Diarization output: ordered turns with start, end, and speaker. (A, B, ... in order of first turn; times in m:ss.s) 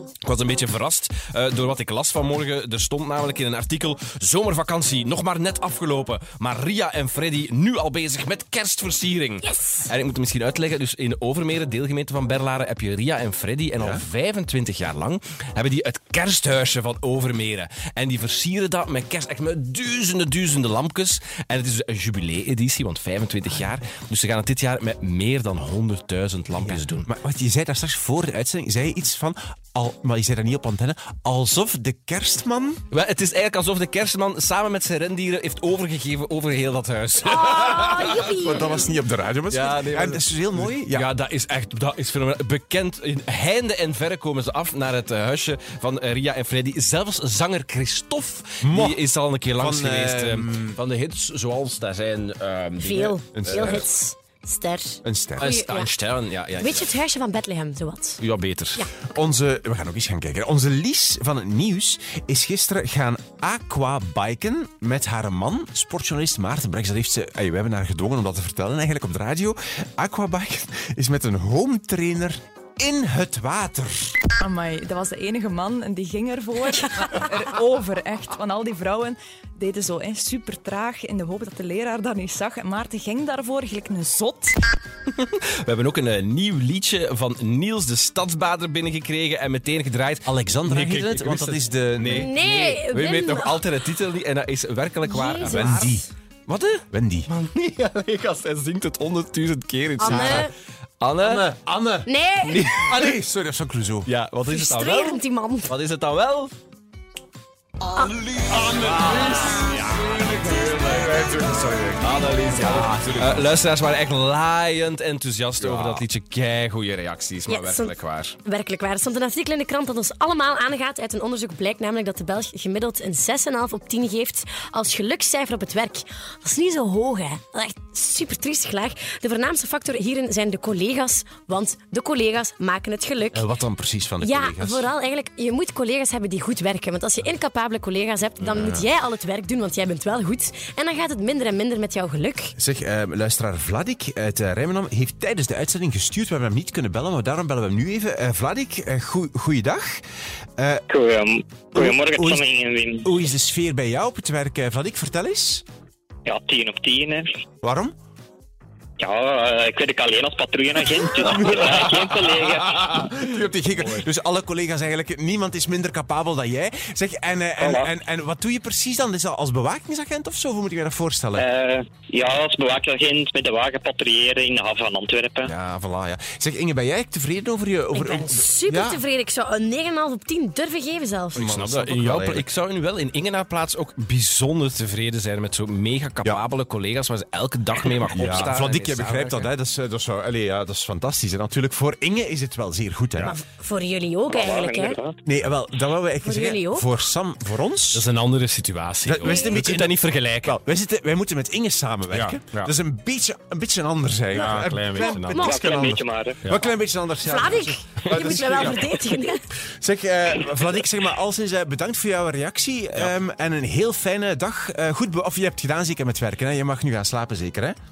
0:00.2-0:27.1 A
0:09.4-0:09.9 B
0:13.8-0:14.0 C
0:26.6-0:32.8 C
0:32.9-0:38.7 A
0:37.2-0:38.9 B
0:38.2-0:41.1 C
0:39.5-0:53.9 A
0:48.6-0:49.0 C
0:49.6-0:50.8 C
0:52.8-0:55.9 B
0:53.4-0:53.9 C
0:55.0-0:55.5 C
0:55.4-0:57.0 A
0:56.6-0:58.2 B
0:58.2-0:58.8 A
0:59.1-1:14.2 C
1:14.4-1:24.6 D
1:25.2-1:36.0 A
1:30.3-1:32.3 C
1:32.1-1:33.6 B
1:35.1-1:36.0 B
1:35.4-1:36.1 C
1:36.5-1:40.5 A
1:36.9-1:37.3 C
1:40.0-1:40.5 B
1:40.1-1:40.5 C
1:41.0-1:41.6 A
1:41.2-1:42.1 C
1:42.0-1:42.7 B
1:42.4-1:43.2 A
1:42.8-1:44.1 C
1:44.1-1:46.5 A
1:44.5-1:45.7 B
1:47.9-1:48.2 B
1:48.0-1:51.4 A
1:48.8-1:49.5 C
1:50.8-1:53.4 C
1:52.0-1:58.4 A
1:55.6-1:56.0 C
1:57.5-2:13.5 B
2:13.3-2:14.9 C
2:14.2-2:22.6 B
2:18.4-2:18.9 C
2:22.6-2:30.0 C
2:30.6-2:30.8 C
2:30.9-2:33.1 E
2:31.7-2:32.4 C
2:33.0-2:35.6 C
2:36.3-2:37.3 E
2:37.6-2:37.9 C
2:39.0-2:42.8 E
2:41.2-2:51.5 C
2:47.6-2:47.9 E
2:51.4-2:55.5 E
2:55.4-2:59.0 C
2:57.9-3:01.4 B
3:01.3-3:02.5 C
3:01.4-3:09.5 A
3:08.1-3:13.4 C
3:13.2-3:15.0 B
3:14.3-3:15.2 E
3:15.2-3:18.1 C
3:16.2-3:16.9 B
3:17.9-3:20.6 A
3:19.0-3:37.8 C
3:19.3-3:19.5 B
3:22.1-3:22.7 A
3:24.3-3:25.6 A
3:24.9-3:25.8 B
3:25.3-3:26.4 E
3:26.4-3:26.7 A
3:27.2-3:29.4 B
3:28.0-3:28.8 A